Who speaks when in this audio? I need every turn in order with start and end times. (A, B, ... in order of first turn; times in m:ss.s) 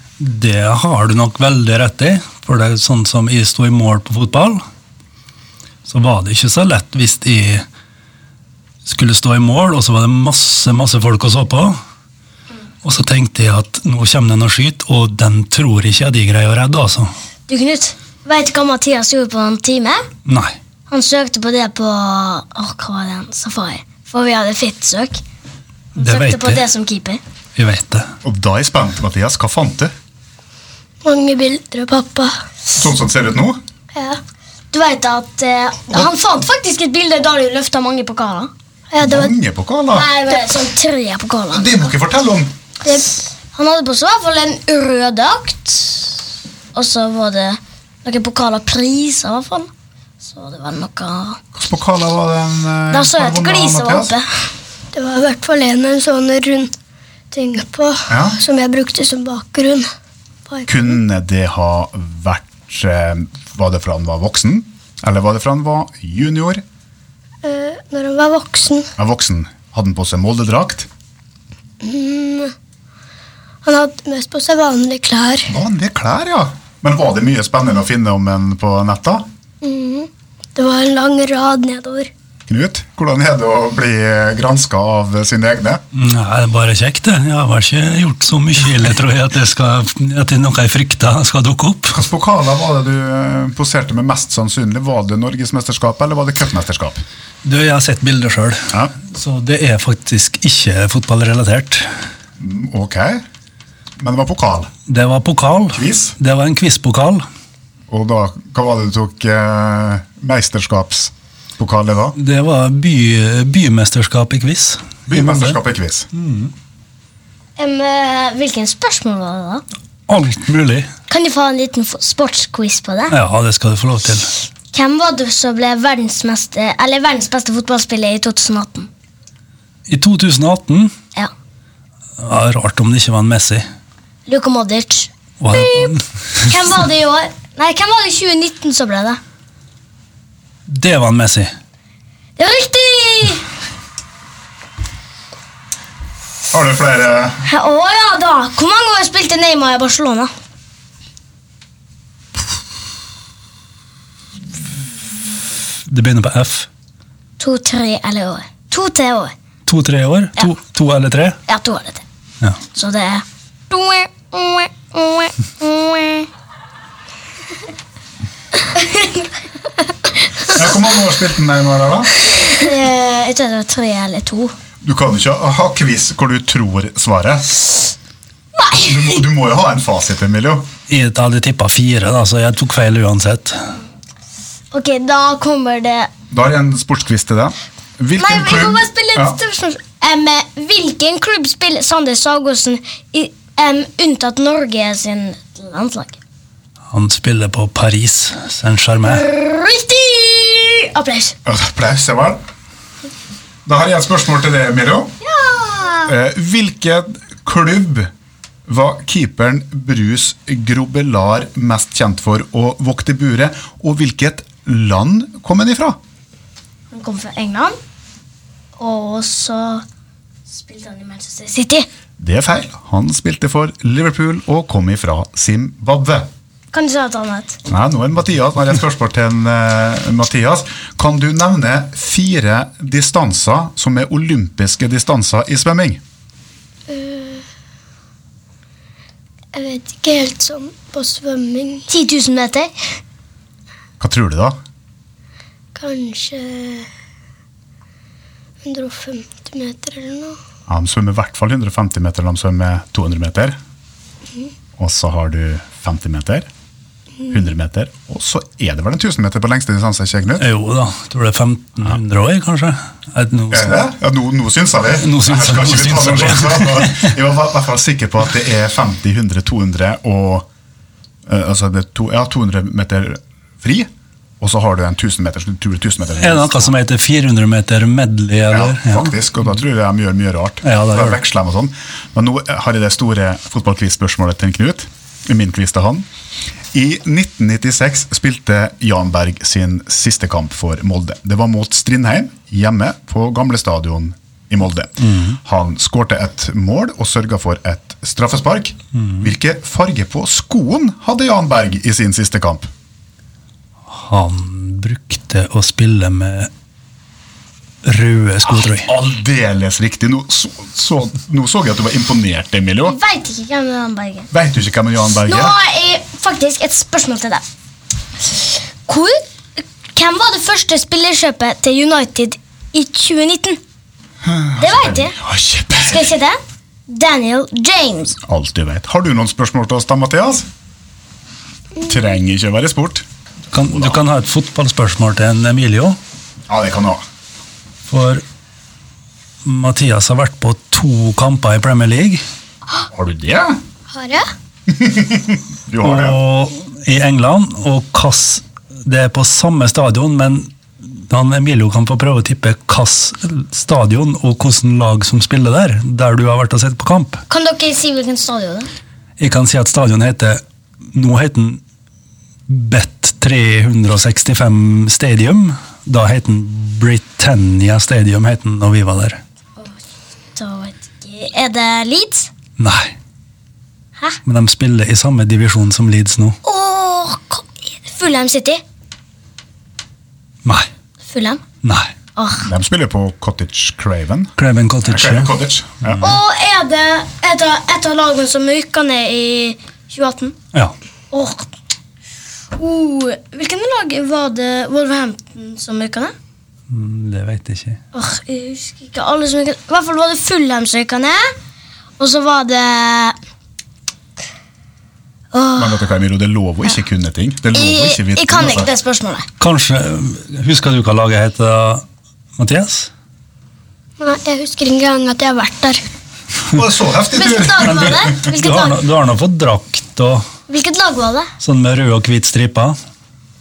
0:00.2-0:04.6 A
0:05.9-0:07.7 A
0:08.8-0:11.8 A
0:12.8-0:17.1 A
0:17.5-0:20.1 B
0:20.3-0:20.6 A
0:20.9-0:25.2 B
0:26.0-0:27.2 B
0:26.0-0:26.6 A
0:27.6-0:28.1 A
0:28.2-0:29.9 C
0:31.0-0:32.4 D
0:32.8-0:33.6 C
0:34.0-0:34.2 D
0:34.7-0:38.5 B
0:38.9-0:39.3 D
0:39.0-0:40.1 C
0:39.9-0:41.9 B
0:41.5-0:42.5 C
0:43.5-0:46.2 B
0:46.7-0:49.7 B
0:50.2-0:51.4 B
0:51.5-0:54.1 C
0:52.9-0:54.3 B
0:54.9-0:56.7 D
0:57.3-0:59.9 D
0:58.1-0:58.4 C
1:00.5-1:00.8 D
1:00.7-1:06.6 C
1:07.4-1:08.9 D
1:09.0-1:10.9 C
1:11.8-1:12.5 D
1:13.6-1:15.5 D
1:15.5-1:19.3 C
1:19.6-1:22.1 D
1:22.5-1:25.8 C
1:25.9-1:32.0 A
1:31.9-1:37.0 C
1:37.4-1:41.9 A
1:42.4-1:43.2 C
1:44.0-1:44.7 C
1:44.9-1:47.2 A
1:45.7-1:46.2 C
1:47.9-1:52.2 C
1:52.2-1:55.6 A
1:55.1-1:56.1 C
1:56.1-1:56.5 A
1:57.6-1:59.6 B
2:00.1-2:00.9 A
2:01.1-2:03.2 B
2:03.1-2:04.3 A
2:04.7-2:08.9 B
2:09.9-2:10.9 A
2:12.2-2:13.7 A
2:14.3-2:19.2 B
2:15.4-2:16.0 A
2:20.7-2:21.5 A
2:22.4-2:23.4 B
2:26.5-2:27.4 C
2:27.4-2:30.3 B
2:35.9-2:36.7 A
2:37.4-2:39.4 B
2:39.7-2:41.4 A
2:41.5-2:42.0 B
2:42.7-2:46.3 B
2:48.7-2:49.3 B
2:50.5-2:52.1 C
2:52.3-2:54.5 B
2:54.8-2:57.5 C
2:58.6-2:59.2 B
2:58.8-3:00.7 C
3:00.9-3:03.7 A
3:04.7-3:06.1 B
3:06.3-3:09.4 C
3:08.2-3:16.2 B
3:16.9-3:19.2 A
3:19.0-3:21.4 B
3:21.4-3:22.4 C
3:23.7-3:25.1 C
3:25.2-3:26.1 B
3:26.1-3:28.1 C
3:28.7-3:36.0 C
3:36.9-3:37.8 B
3:38.8-3:39.8 B
3:40.5-3:41.9 B
3:42.2-3:46.3 C
3:46.7-3:47.6 B
3:47.7-3:56.0 C
3:56.9-3:57.4 D
3:59.5-4:01.9 D
4:01.9-4:02.7 B
4:04.0-4:04.6 C
4:05.8-4:06.9 D
4:08.6-4:10.4 D
4:10.7-4:13.6 C
4:14.8-4:16.5 C
4:17.3-4:20.5 C
4:20.4-4:23.8 A
4:23.5-4:30.5 C
4:25.0-4:27.1 A
4:31.3-4:33.9 C
4:34.4-4:36.7 C
4:36.2-4:39.1 A
4:38.5-4:46.1 C
4:40.6-4:41.2 A
4:46.7-5:02.7 C
4:55.0-4:55.4 A
4:58.9-4:59.3 A
5:03.9-5:06.5 A
5:07.8-5:08.9 A
5:08.4-5:13.0 C
5:12.8-5:14.3 B
5:14.3-5:15.6 C
5:15.3-5:17.4 B
5:18.3-5:23.6 B
5:24.2-5:26.1 C
5:24.6-5:25.2 B
5:25.8-5:28.2 B
5:28.2-5:30.5 C
5:31.8-5:33.0 C
5:33.5-5:36.0 A
5:33.7-5:34.0 C
5:36.5-5:37.0 C
5:37.9-5:38.2 A
5:39.4-5:42.2 A
5:42.9-5:43.6 C
5:43.9-5:44.2 D
5:44.7-5:46.2 C
5:45.8-5:57.2 A
5:57.3-5:58.7 B
5:59.2-6:00.4 A
6:00.9-6:01.6 A
6:02.5-6:09.2 A
6:10.4-6:12.3 B
6:12.6-6:13.0 A
6:14.2-6:16.4 A
6:16.4-6:18.6 B
6:21.0-6:21.4 B
6:21.6-6:21.9 A
6:22.2-6:22.5 B
6:22.4-6:26.1 C
6:24.4-6:25.3 A
6:26.0-6:30.4 B
6:31.1-6:31.5 B
6:32.6-6:36.1 B
6:36.7-6:37.8 A
6:37.9-6:41.3 B
6:42.0-6:43.2 B
6:45.3-6:45.8 B
6:45.6-6:48.7 C
6:47.5-6:49.3 B
6:49.4-6:51.8 A
6:52.4-6:52.9 A
6:54.0-6:55.8 D
6:56.4-6:58.2 C
6:57.1-6:58.8 B
6:57.6-7:00.3 A
7:00.5-7:01.3 B
7:01.4-7:02.8 A